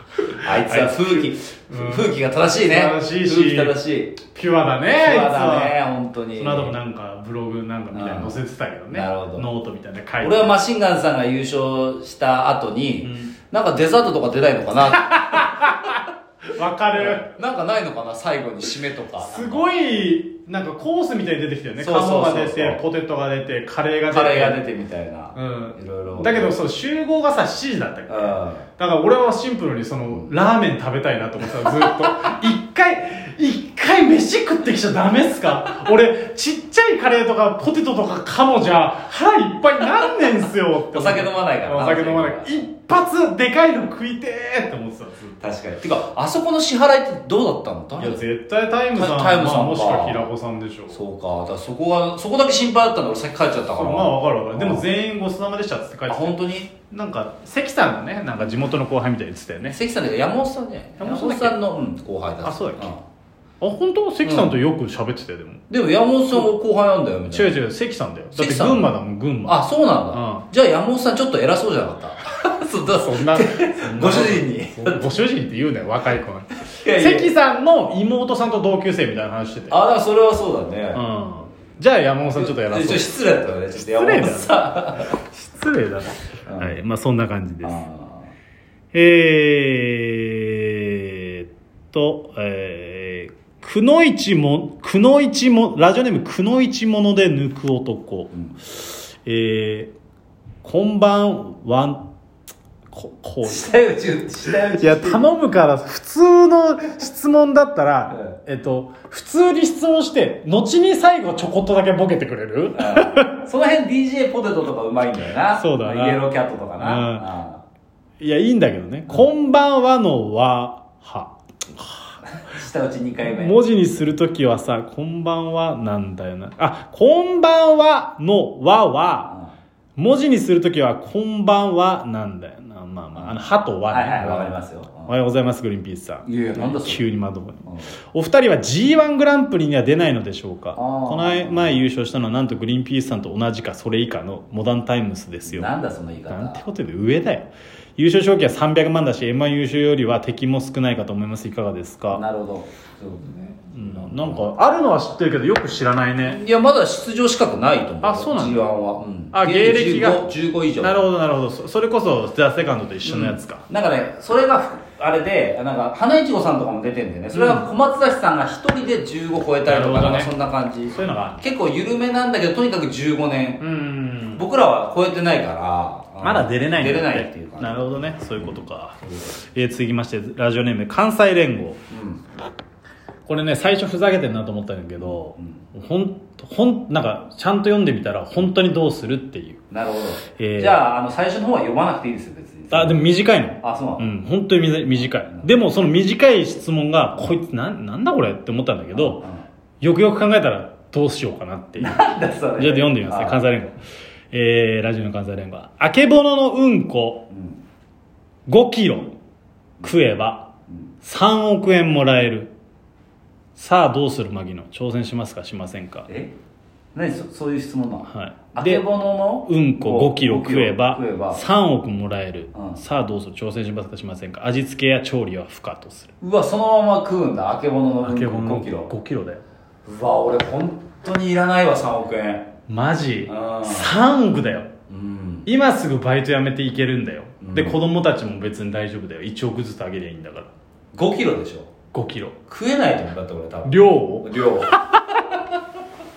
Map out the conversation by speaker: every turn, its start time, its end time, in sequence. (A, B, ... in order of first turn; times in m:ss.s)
0:00.3-0:05.8 A
0:00.4-0:04.2 B
0:04.9-0:06.8 B
0:06.4-0:10.5 A
0:07.9-0:08.4 B
0:08.9-0:09.5 B
0:10.2-0:15.7 B
0:13.0-0:13.3 A
0:14.8-0:16.0 A
0:16.6-0:17.3 A
0:16.9-0:19.6 B
0:19.2-0:24.6 A
0:21.8-0:22.8 B
0:24.1-0:26.6 B
0:25.3-0:45.4 A
0:28.1-0:28.7 B
0:40.9-0:42.7 B
0:45.4-0:48.2 B
0:48.0-0:51.0 A
0:48.9-0:50.3 B
0:50.9-0:54.9 B
0:53.7-0:59.8 A
0:56.1-0:56.7 B
0:59.7-1:03.0 B
1:01.0-1:01.6 A
1:02.4-1:02.9 A
1:03.6-1:05.6 A
1:04.2-1:04.6 B
1:05.7-1:07.6 B
1:07.3-1:10.5 A
1:08.4-1:08.9 B
1:09.5-1:15.1 B
1:12.9-1:19.8 A
1:16.8-1:17.3 B
1:19.7-1:21.0 B
1:20.9-1:23.2 A
1:22.4-1:25.2 B
1:23.7-1:27.8 A
1:26.5-1:26.8 B
1:27.6-1:28.3 B
1:28.9-1:39.9 A
1:40.6-1:42.1 A
1:42.9-1:43.7 A
1:43.4-1:45.3 B
1:44.5-1:53.4 A
1:48.1-1:48.4 B
1:52.8-1:57.6 B
1:55.5-1:57.3 A
1:58.2-2:02.2 A
2:02.3-2:03.5 B
2:03.2-2:09.3 A
2:09.3-2:09.5 B
2:10.0-2:25.7 A
2:13.9-2:15.1 B
2:16.2-2:17.0 B
2:17.7-2:17.9 B
2:20.8-2:21.8 B
2:25.5-2:26.6 B
2:26.3-2:32.2 A
2:32.1-2:34.4 B
2:33.6-2:36.4 A
2:36.2-2:41.1 B
2:38.0-2:38.7 A
2:39.3-2:43.6 A
2:43.0-2:53.6 B
2:47.3-2:47.6 A
2:49.7-2:50.3 A
2:50.9-2:51.4 A
2:53.6-2:54.4 A
2:54.4-2:58.6 B
2:56.2-2:59.0 A
2:59.5-3:01.8 A
3:01.9-3:02.2 B
3:03.3-3:09.6 A
3:05.0-3:05.6 B
3:09.7-3:13.0 B
3:10.4-3:10.8 A
3:12.7-3:19.2 A
3:13.6-3:14.1 B
3:14.9-3:15.5 B
3:18.9-3:19.4 B
3:19.8-3:22.0 A
3:21.8-3:23.4 B
3:22.6-3:23.8 A
3:24.3-3:27.3 A
3:27.3-3:27.6 B
3:28.5-3:29.2 A
3:29.8-3:30.1 B
3:29.8-3:30.5 A
3:31.0-3:32.5 A
3:33.6-3:36.1 A
3:36.1-3:36.3 B
3:37.0-3:41.4 B
3:38.1-3:38.8 A
3:39.5-3:46.1 A
3:42.6-3:42.8 B
3:46.2-3:48.9 B
3:48.0-3:49.4 A
3:49.9-3:52.5 B
3:52.7-3:54.7 A
3:53.3-3:53.9 B
3:54.9-3:55.5 B
3:55.5-4:00.5 A
3:57.4-3:57.8 B
4:00.9-4:01.7 B
4:01.9-4:02.4 A
4:02.5-4:04.8 B
4:03.6-4:05.0 A